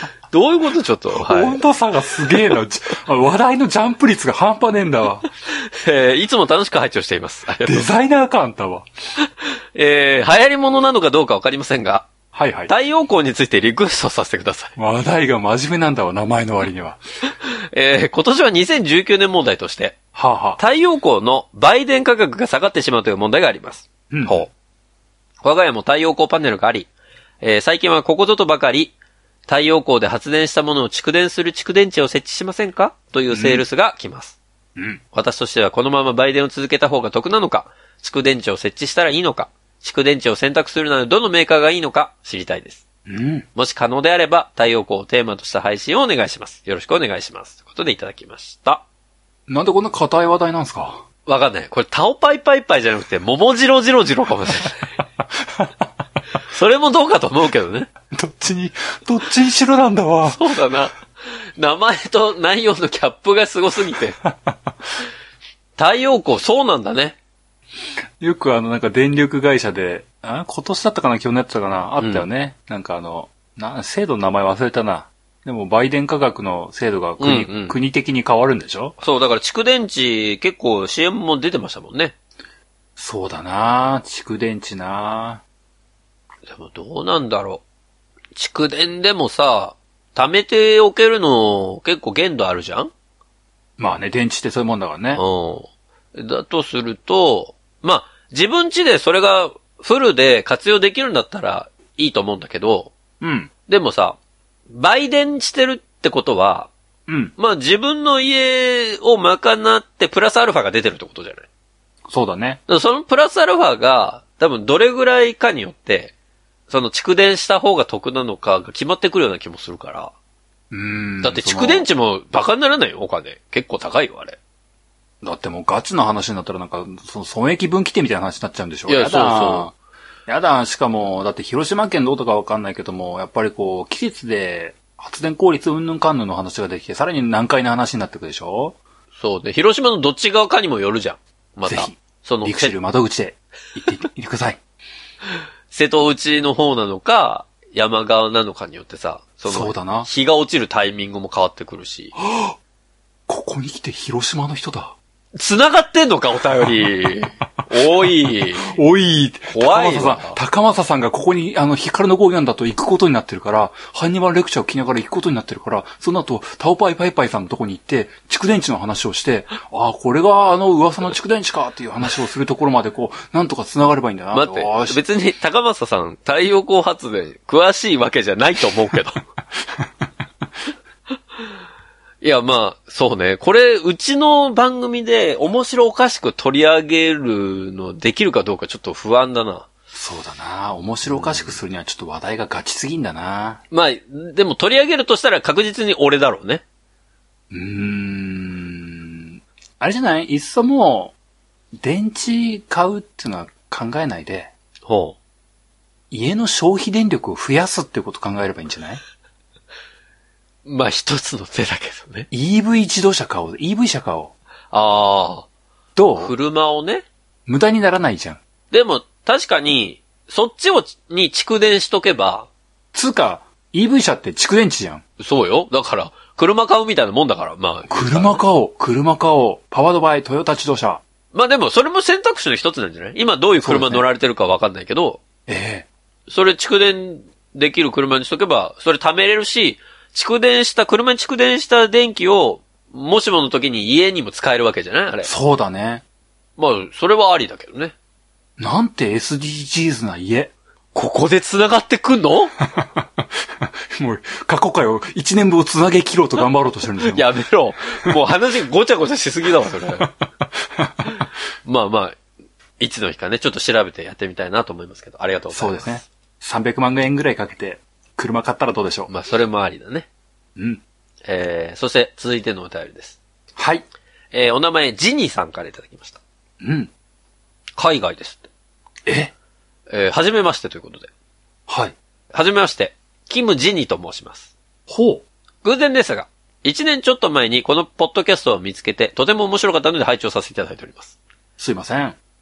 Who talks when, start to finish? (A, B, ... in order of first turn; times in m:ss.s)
0:00.3-0:01.6 A
0:01.1-0:05.2 B
0:05.5-0:07.9 A
0:07.6-0:08.9 B
0:09.3-0:12.1 A
0:12.3-0:12.7 B
0:12.7-0:14.7 A
0:14.8-0:17.0 B
0:17.4-0:20.0 A
0:20.1-0:20.6 B
0:20.6-0:24.5 A
0:24.1-0:24.4 B
0:25.4-0:26.9 A
0:27.4-0:29.0 A
0:29.5-0:34.4 A
0:33.3-0:33.6 B
0:34.8-0:35.0 B
0:35.1-0:42.8 A
0:43.1-0:43.5 B
0:43.5-0:48.8 A
0:49.5-0:51.0 B
0:51.2-0:54.8 A
0:56.4-0:57.9 A
0:58.1-1:00.4 B
1:00.3-1:01.0 A
1:01.6-1:04.2 A
1:04.2-1:04.5 B
1:05.8-1:07.2 A
1:08.2-1:19.0 B
1:12.0-1:12.2 A
1:17.2-1:17.8 A
1:19.0-1:22.1 A
1:23.0-1:25.4 B
1:26.5-1:27.6 A
1:28.3-1:32.9 A
1:33.8-1:35.2 B
1:35.1-1:42.9 A
1:43.2-1:43.5 B
1:43.7-1:44.2 A
1:44.7-1:46.7 A
1:47.1-1:47.3 B
1:47.4-1:51.5 A
1:52.1-1:52.6 B
1:52.7-1:56.1 A
1:56.7-2:00.1 A
2:00.7-2:01.8 B
2:01.2-2:04.4 A
2:05.2-2:09.7 B
2:08.9-2:09.7 A
2:10.3-2:18.8 B
2:19.2-2:22.7 A
2:21.7-2:24.6 B
2:25.7-2:32.1 A
2:29.5-2:30.1 B
2:32.2-2:32.5 B
2:33.3-2:35.0 B
2:35.4-2:38.7 A
2:38.6-2:55.0 B
2:39.5-2:40.4 A
2:54.3-2:59.2 A
3:02.2-3:09.7 A
3:09.9-3:13.6 B
3:11.1-3:11.6 A
3:13.7-3:16.6 A
3:17.5-3:21.1 B
3:21.8-3:24.5 B
3:24.8-3:25.2 A
3:26.1-3:29.0 B
3:30.6-3:32.3 A
3:32.3-3:34.3 B
3:34.7-3:35.5 A
3:36.0-3:36.3 B
3:36.2-3:37.0 A
3:37.5-3:38.4 B
3:38.7-3:42.5 A
3:42.9-3:45.0 B
3:45.2-3:48.4 A
3:47.9-3:51.0 B
3:51.3-3:55.2 A
3:53.6-3:54.0 B
3:55.5-3:55.9 B
3:56.3-4:05.3 A
4:05.2-4:06.0 B
4:06.6-4:07.9 A
4:08.6-4:10.5 B
4:10.9-4:12.6 A
4:13.6-4:17.2 B
4:17.0-4:20.1 A
4:20.0-4:21.1 B
4:21.6-4:22.2 A
4:22.8-4:26.0 A
4:25.5-4:29.1 B
4:29.1-4:30.1 A
4:30.6-4:30.8 B
4:31.3-4:33.2 A
4:33.6-4:33.8 B
4:34.3-4:36.2 A
4:36.6-4:36.9 B
4:37.8-4:38.5 A
4:39.0-4:39.3 B
4:39.9-4:41.1 A
4:41.7-4:41.9 B
4:42.3-4:44.5 A
4:44.9-4:45.2 B
4:45.6-4:51.2 A
4:51.6-4:52.2 B